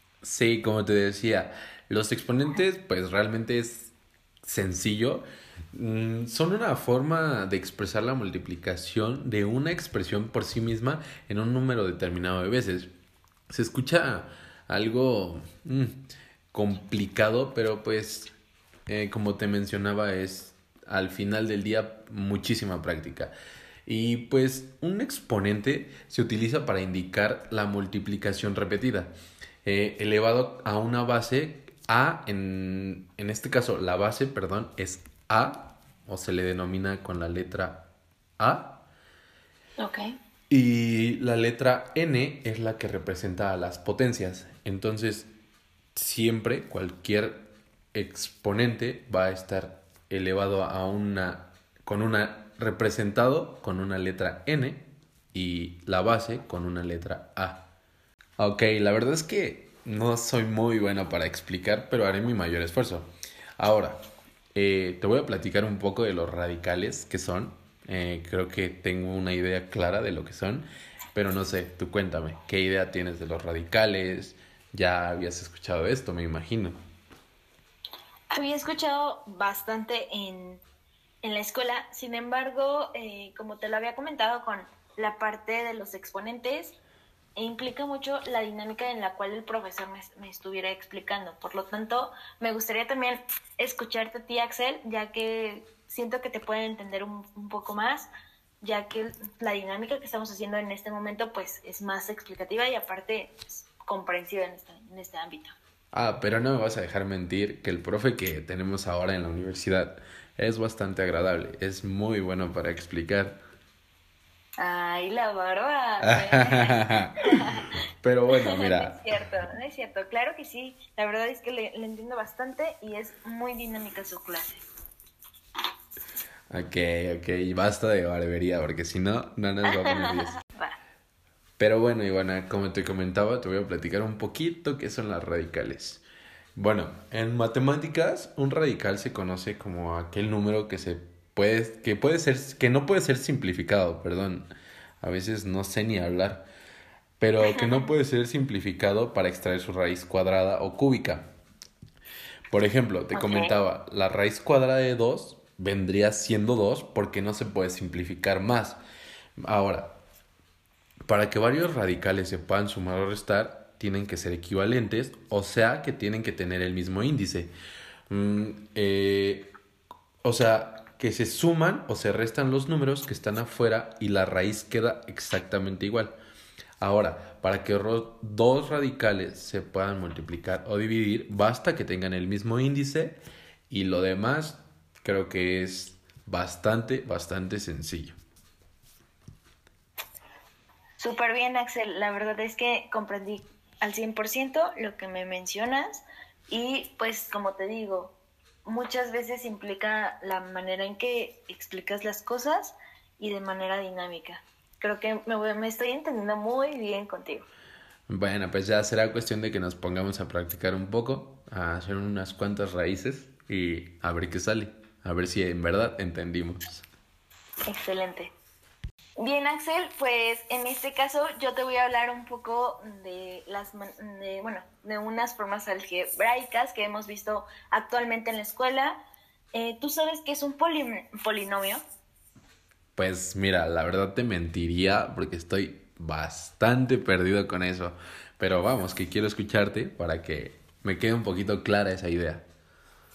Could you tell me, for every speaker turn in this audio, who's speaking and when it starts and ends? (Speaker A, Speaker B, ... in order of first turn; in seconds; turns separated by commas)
Speaker A: 0.2-12.9, Speaker A: 13.5-16.0, Speaker A: 16.5-18.3, Speaker A: 18.9-23.3, Speaker A: 23.9-29.1, Speaker A: 29.6-38.8, Speaker B: 39.8-40.1, Speaker A: 40.5-45.3, Speaker A: 45.9-57.7, Speaker A: 58.4-63.1, Speaker A: 63.6-64.0, Speaker A: 64.5-76.8, Speaker B: 78.3-80.6, Speaker B: 81.2-86.8, Speaker B: 87.4-98.1, Speaker B: 98.6-105.5, Speaker A: 105.9-113.4, Speaker B: 114.6-117.8, Speaker A: 116.0-117.1, Speaker A: 118.0-119.0, Speaker B: 118.3-124.6, Speaker A: 126.5-130.4, Speaker B: 129.7-130.8, Speaker A: 131.6-136.0, Speaker A: 136.6-146.5, Speaker A: 147.2-151.3, Speaker B: 147.4-147.9, Speaker A: 152.5-158.8, Speaker B: 153.1-153.5, Speaker A: 159.4-160.0, Speaker A: 161.1-167.5, Speaker A: 168.1-169.5, Speaker A: 170.2-176.2, Speaker A: 176.8-188.2, Speaker B: 191.0-198.1, Speaker B: 198.6-207.5, Speaker A: 208.1-216.8, Speaker B: 217.7-218.3, Speaker B: 219.2-229.0, Speaker B: 229.5-231.8, Speaker A: 232.9-242.4